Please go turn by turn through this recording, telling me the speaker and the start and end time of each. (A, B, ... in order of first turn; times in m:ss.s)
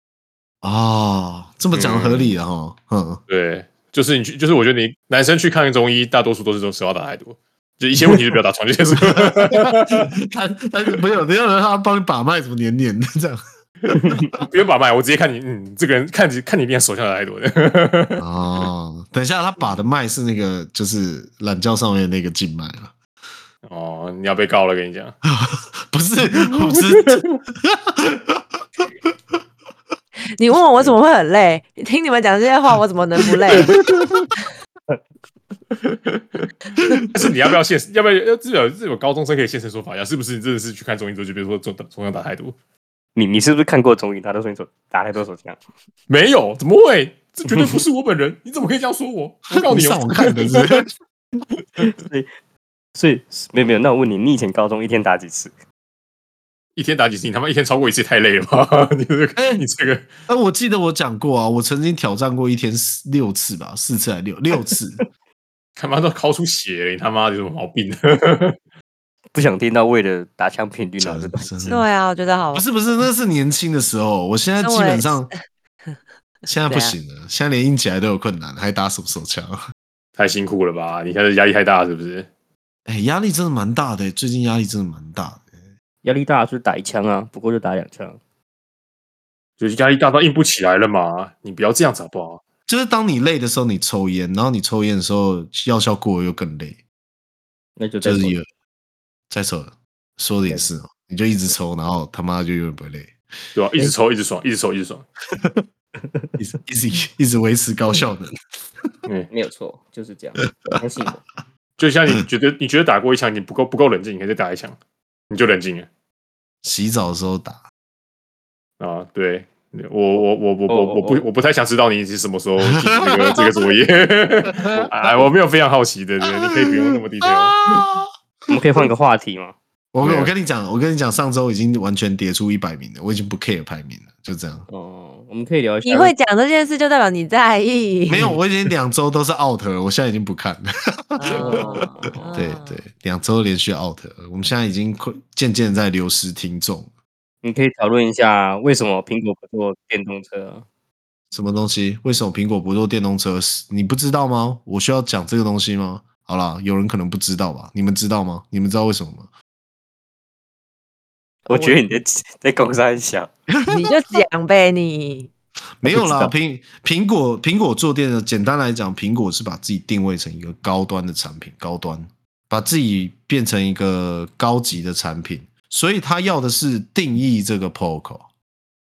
0:00.6-0:03.2 A
0:01.7-0:02.4 B
0:03.3-0:10.1 B
0:09.0-0:13.4 A
0:13.9-0:14.2 C
0:14.3-0:18.2 B
0:18.2-0:22.9 A
0:23.6-0:25.2 B
0:25.2-0:29.1 A
0:26.3-0:27.4 B
0:30.4-0:33.8 D
0:33.6-0:34.0 B
0:35.8-0:36.5 B
0:36.8-0:37.4 A
0:37.0-0:42.5 B
0:43.1-0:45.6 C
0:46.1-0:50.8 B
0:47.5-0:47.8 C
0:49.5-0:50.9 A
0:51.8-0:52.3 C
0:52.9-0:55.5 C
0:56.8-1:00.1 B
0:59.4-0:59.6 A
1:00.3-1:05.0 A
1:05.8-1:08.6 B
1:09.3-1:11.8 C
1:11.0-1:11.8 A
1:11.7-1:12.6 D
1:12.5-1:15.3 A
1:14.6-1:15.3 D
1:16.5-1:17.0 D
1:16.5-1:19.6 A
1:20.2-1:22.3 B
1:22.9-1:25.5 A
1:26.0-1:28.2 C
1:29.6-1:32.4 B
1:32.7-1:36.8 A
1:37.8-1:38.4 C
1:38.0-1:38.5 A
1:39.3-1:43.2 A
1:43.5-1:45.0 B
1:46.4-1:48.3 A
1:49.3-1:51.2 C
1:51.8-1:54.8 B
1:55.3-1:55.9 B
1:56.6-1:57.6 A
1:58.8-2:07.7 B
2:00.7-2:01.2 C
2:02.6-2:03.5 A
2:04.6-2:04.9 A
2:06.2-2:08.8 A
2:08.5-2:09.5 C
2:09.9-2:14.7 A
2:10.0-2:10.3 B
2:14.7-2:16.1 C
2:15.8-2:18.3 D
2:18.1-2:26.9 A
2:21.2-2:22.8 D
2:21.3-2:22.5 C
2:27.4-2:30.6 C
2:31.3-2:39.3 A
2:41.5-2:43.3 C
2:43.5-2:43.8 A
2:43.7-2:45.3 D
2:45.8-2:58.3 A
2:45.8-2:46.3 C